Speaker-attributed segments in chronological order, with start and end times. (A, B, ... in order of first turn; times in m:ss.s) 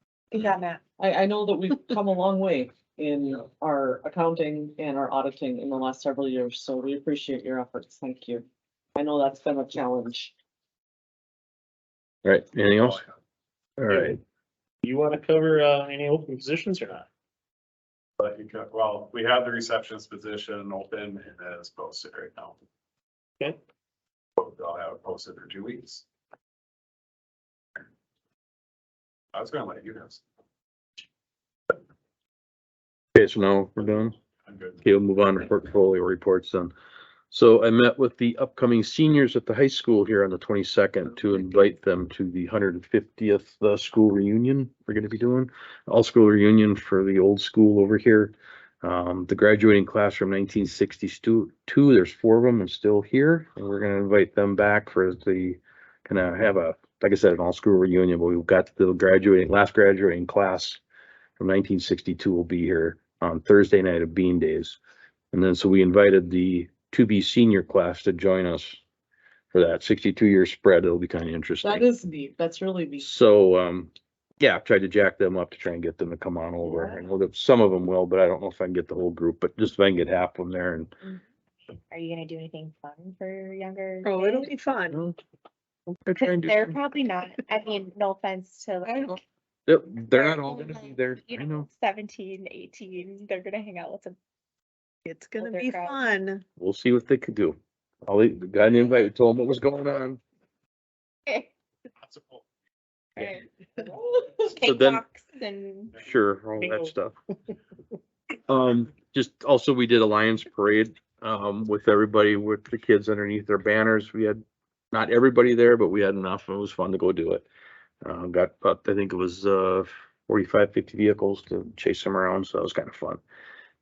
0:00.3-0:00.8 A
0:01.0-0:08.4 B
0:09.0-0:10.3 B
0:12.2-0:13.0 C
0:12.8-0:13.1 D
0:13.8-0:14.2 C
0:13.9-0:14.2 E
0:14.8-0:17.1 E
0:18.2-0:22.6 D
0:24.4-0:26.0 D
0:29.3-0:30.2 D
0:33.1-0:34.1 C
0:34.4-0:34.8 D
0:34.8-0:36.7 C
0:37.3-1:00.8 C
1:01.4-1:04.8 C
1:05.3-1:08.8 C
1:09.5-1:11.8 C
1:11.6-1:13.1 B
1:13.0-1:20.9 C
1:16.6-1:17.0 B
1:21.9-1:24.5 A
1:24.0-1:25.0 F
1:24.9-1:25.2 C
1:26.0-1:26.8 C
1:26.2-1:29.2 A
1:28.9-1:31.7 C
1:30.1-1:34.2 A
1:35.0-1:36.4 F
1:35.4-1:36.2 A
1:36.6-1:40.2 C
1:42.0-1:42.4 D
1:43.2-1:43.4 A
1:44.4-1:46.0 A
1:44.6-1:45.0 C
1:46.0-1:47.1 C
1:48.5-1:57.4 C
1:58.0-2:03.2 C